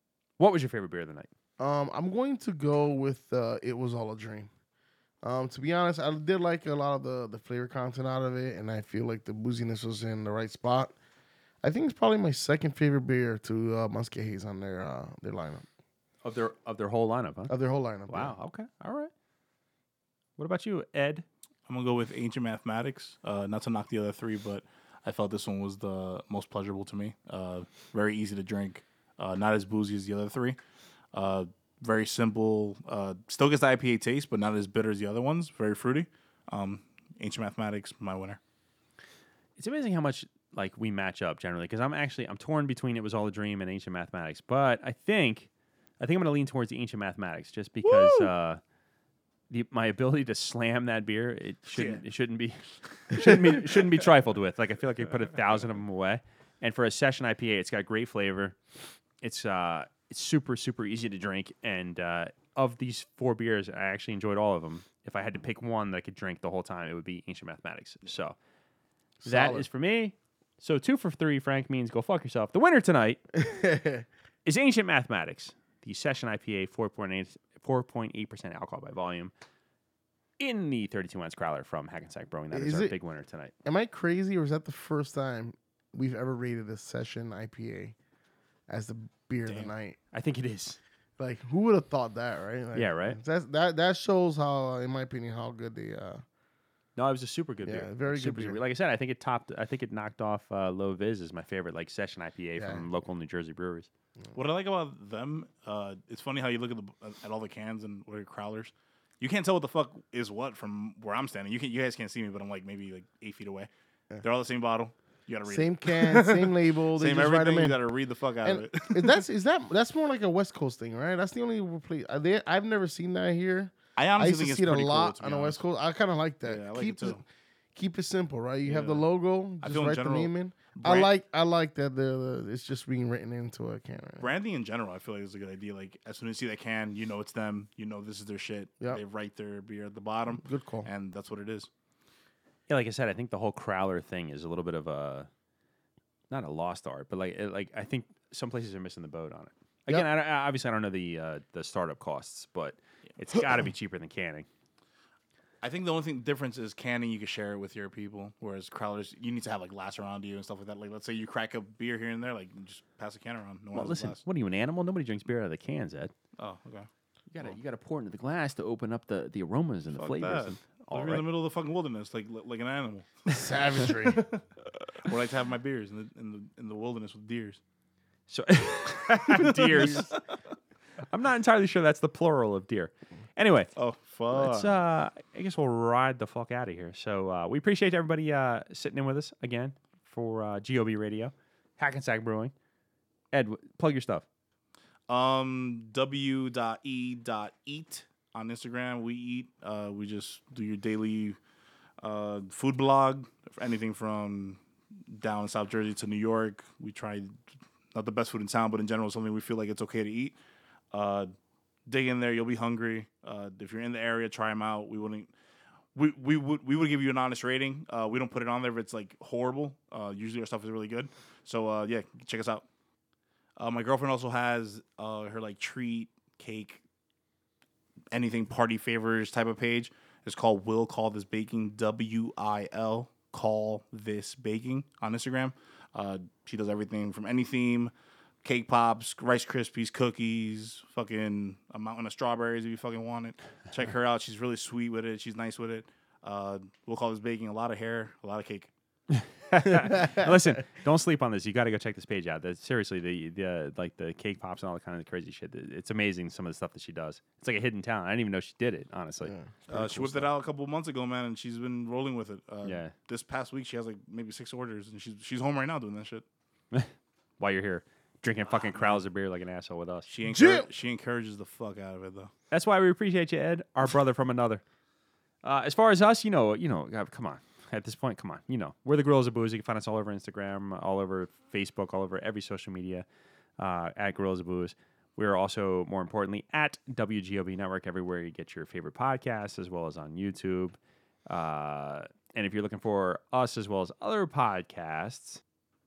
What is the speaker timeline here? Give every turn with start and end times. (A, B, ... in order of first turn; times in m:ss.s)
0:00.4-0:01.3 A
0:01.6-0:04.5 B
0:05.2-0:10.9 B
0:11.6-0:15.6 B
0:16.2-0:17.5 A
0:17.5-0:18.3 B
0:18.1-0:19.1 A
0:20.4-0:21.2 A
0:21.7-0:30.6 C
0:31.1-0:38.4 C
0:39.6-0:45.5 A
0:46.0-0:48.6 A
0:47.8-0:48.3 C
0:49.5-0:58.6 A
0:51.7-0:52.0 C
0:59.2-1:08.4 A
1:09.2-1:09.7 B
1:09.2-1:13.2 A
1:13.3-1:14.0 B
1:14.4-1:19.3 A
1:20.4-1:23.5 A
1:22.5-1:22.9 B
1:23.6-1:27.9 B
1:28.7-1:30.0 B
1:29.4-1:29.7 C
1:30.1-1:30.8 A
1:31.2-1:36.2 B
1:32.7-1:33.2 A
1:37.0-1:43.9 A
1:37.6-1:38.6 B
1:42.6-1:42.8 B
1:44.3-1:53.7 C
1:54.2-1:59.2 C
1:55.4-1:57.8 B
1:58.4-2:07.2 B
2:04.0-2:05.6 C
2:06.4-2:07.2 C
2:07.7-2:14.3 B
2:08.7-2:09.1 C
2:09.6-2:11.1 C
2:14.2-2:21.7 C
2:20.4-2:20.9 B
2:22.7-2:25.3 A
2:26.3-2:34.5 A
2:35.6-2:44.2 C
2:43.7-2:46.1 A
2:46.4-2:46.9 C
2:47.3-2:51.2 A
2:49.9-2:54.4 C
2:53.3-2:54.2 B
2:54.9-2:57.6 C
2:58.3-3:00.2 A
2:59.1-3:00.2 C
3:01.1-3:03.7 A
3:03.8-3:04.8 C
3:04.3-3:12.5 A
3:13.3-3:14.2 A
3:15.1-3:21.4 C
3:22.0-3:30.4 C
3:30.9-3:31.3 C
3:31.9-3:35.3 C
3:35.9-3:42.6 C
3:43.6-3:46.8 C
3:48.1-3:57.9 C
3:58.4-4:08.7 C
4:09.1-4:19.9 A
4:09.9-4:10.2 B
4:19.2-4:20.2 B
4:19.7-4:26.2 C
4:22.6-4:22.9 A
4:26.7-4:30.1 A
4:28.5-4:29.0 C
4:30.1-4:32.3 C
4:30.2-4:30.7 B
4:32.5-4:34.6 A
4:35.4-4:43.0 A
4:43.6-4:50.8 A
4:51.3-4:55.4 A